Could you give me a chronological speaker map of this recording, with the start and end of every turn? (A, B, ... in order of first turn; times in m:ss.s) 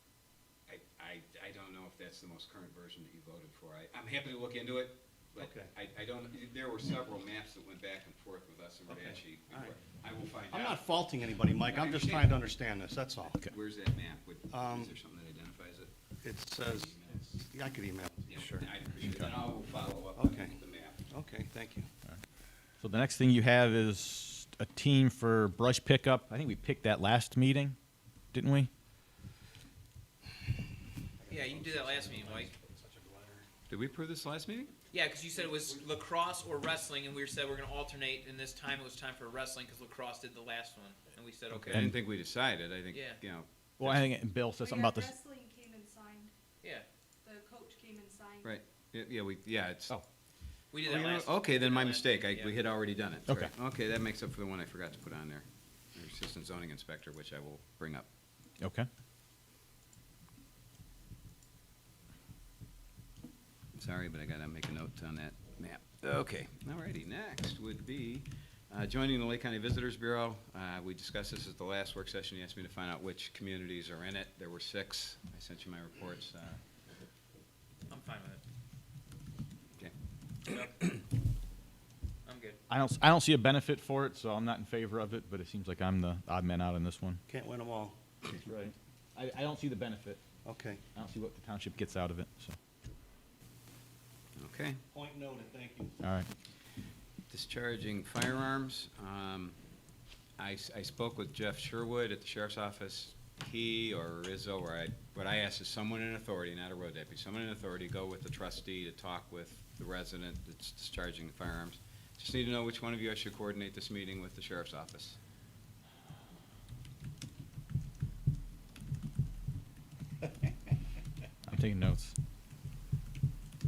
0:00.7-0:11.0 A
0:05.4-0:05.7 B
0:08.9-0:09.8 B
0:10.5-0:13.4 B
0:11.6-0:12.4 A
0:13.3-0:15.9 A
0:14.5-0:14.9 B
0:16.2-0:18.7 B
0:16.6-0:17.3 A
0:18.3-0:21.0 A
0:19.0-0:19.3 C
0:20.2-0:20.6 B
0:21.1-0:21.9 B
0:22.8-0:27.8 C
0:28.3-0:28.7 C
0:31.2-0:33.4 B
0:31.3-0:32.5 D
0:33.7-0:34.7 A
0:34.9-0:41.8 D
0:35.4-0:35.8 B
0:41.5-0:44.1 A
0:42.9-0:43.2 D
0:43.8-0:45.1 C
0:44.6-0:46.3 E
0:47.2-0:48.6 E
0:48.4-0:50.0 A
0:50.7-0:52.6 D
0:50.7-0:58.1 A
0:58.6-0:58.9 C
1:03.7-1:16.6 A
1:17.9-1:18.4 D
1:20.5-1:20.9 D
1:20.5-1:21.0 A
1:22.2-1:22.6 D
1:22.7-1:27.2 C
1:27.3-1:27.9 B
1:28.2-1:30.2 C
1:30.4-1:30.8 B
1:30.9-1:32.6 C
1:34.4-1:34.8 A
1:34.9-1:35.9 B
1:36.0-1:36.3 C
1:37.3-1:39.6 A
1:40.4-1:55.2 A
2:01.5-2:02.1 C